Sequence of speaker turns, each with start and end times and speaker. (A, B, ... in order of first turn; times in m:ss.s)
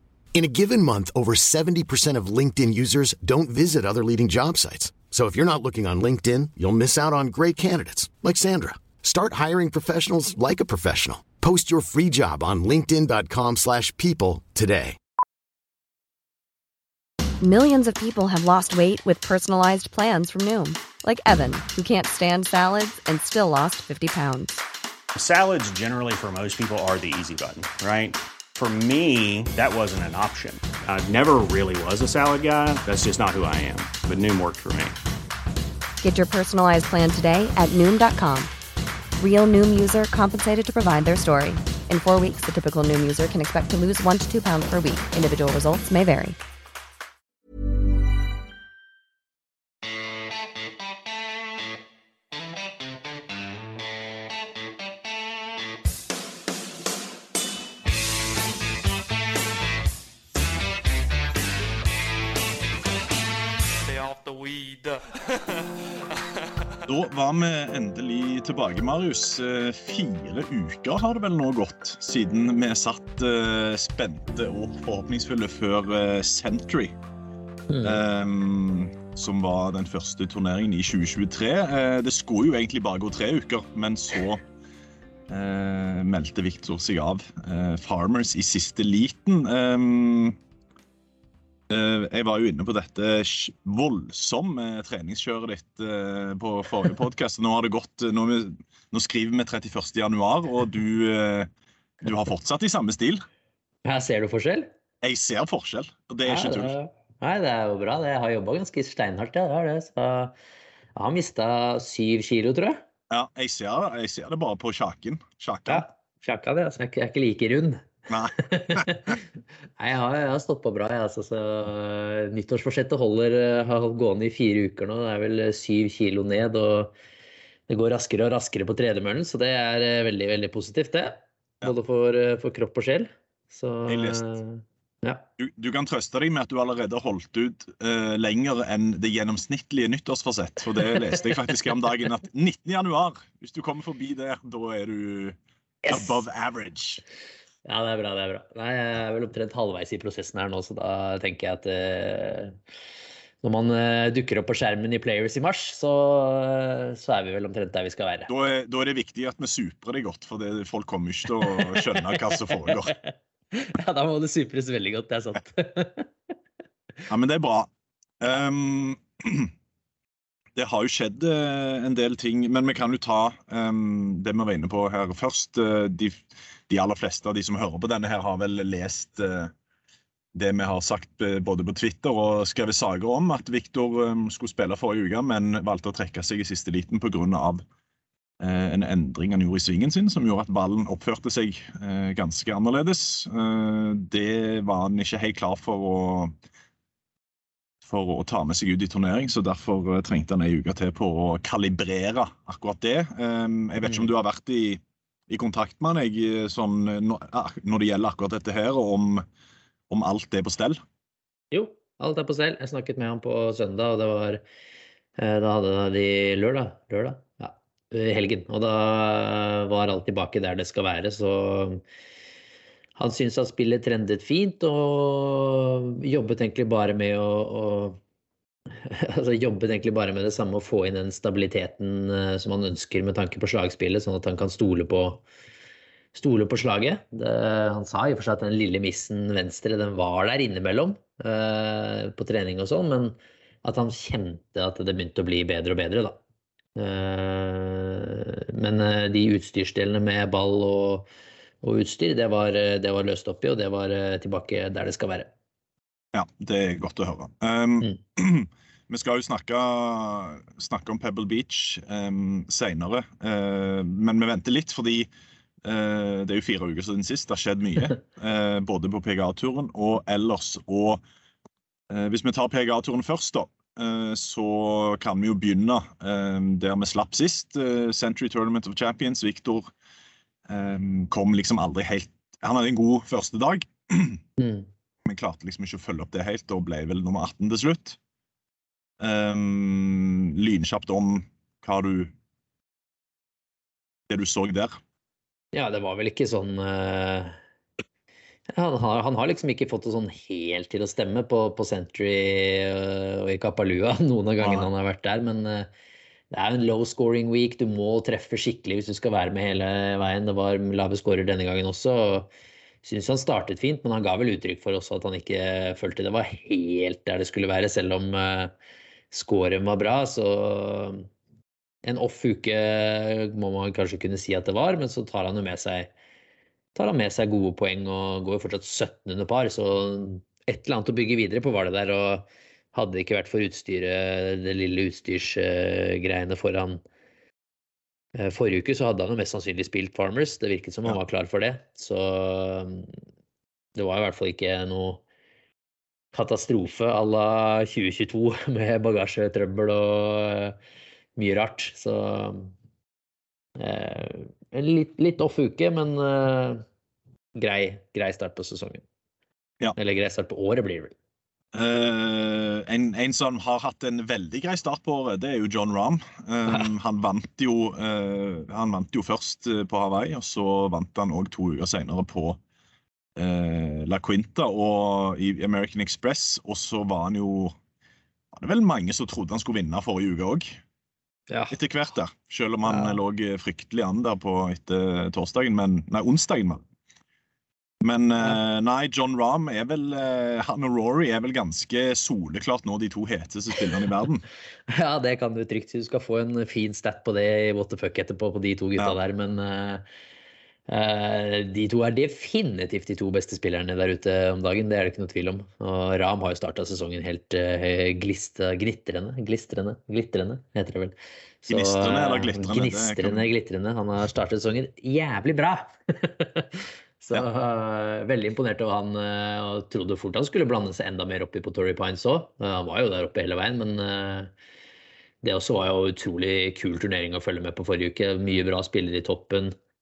0:00.3-0:15.0 A
0:17.4-0:24.6 B
0:25.1-0:35.0 C
0:36.0-0:38.5 B
0:39.2-0:46.4 B
1:03.8-1:06.6 D
1:06.8-1:16.9 E
1:17.7-1:18.0 F
1:17.8-1:24.4 E
1:25.3-1:30.4 E
1:31.7-1:41.5 E
1:42.0-1:43.2 E
1:43.8-1:44.7 F
1:45.0-1:46.7 E
1:46.2-1:50.3 F
1:50.9-1:52.8 F
1:53.1-1:55.9 E
1:55.7-1:59.2 F
1:58.1-1:59.1 E
1:59.8-2:06.9 F
2:07.7-2:15.2 F
2:13.9-2:14.3 E
2:15.4-2:25.4 E
2:25.8-2:26.2 F
2:25.9-2:27.0 E
2:27.6-2:32.6 F
2:33.4-2:38.3 F
2:38.3-2:42.9 E
2:41.4-2:46.1 F
2:47.1-2:49.5 E
2:50.6-2:59.5 E
3:00.3-3:07.6 E
3:08.4-3:16.3 E
3:17.8-3:29.2 E
3:23.8-3:24.1 F
3:29.9-3:30.8 E
3:31.5-3:34.4 F
3:35.2-3:41.8 F
3:43.0-3:48.0 F
3:48.8-3:55.2 F
3:56.1-4:06.2 F
4:06.8-4:11.1 F
4:11.6-4:15.3 F
4:16.1-4:25.1 E
4:25.6-4:31.0 E
4:31.9-4:39.7 E
4:40.5-4:44.2 E
4:44.4-4:44.7 F
4:45.0-4:48.0 E
4:49.0-4:52.1 E
4:54.1-4:54.8 E
4:55.5-4:57.4 F
4:58.5-5:05.7 F
5:04.4-5:04.7 E
5:06.3-5:12.3 F
5:12.8-5:18.5 F
5:19.1-5:21.1 F
5:21.8-5:25.9 F
5:26.7-5:36.8 F
5:38.2-5:43.0 F
5:43.8-5:45.0 F
5:46.1-5:50.6 F
5:51.2-5:52.5 F
5:53.6-5:56.6 F
5:57.4-5:58.8 F
5:59.8-6:00.9 F
6:01.5-6:12.4 E
6:13.2-6:17.6 E
6:18.3-6:20.6 E
6:21.3-6:21.6 F
6:21.5-6:26.6 E
6:22.6-6:23.0 F
6:27.8-6:34.2 E
6:34.7-6:39.8 F
6:40.7-7:04.3 F
6:51.5-6:53.3 E
7:05.2-7:09.5 F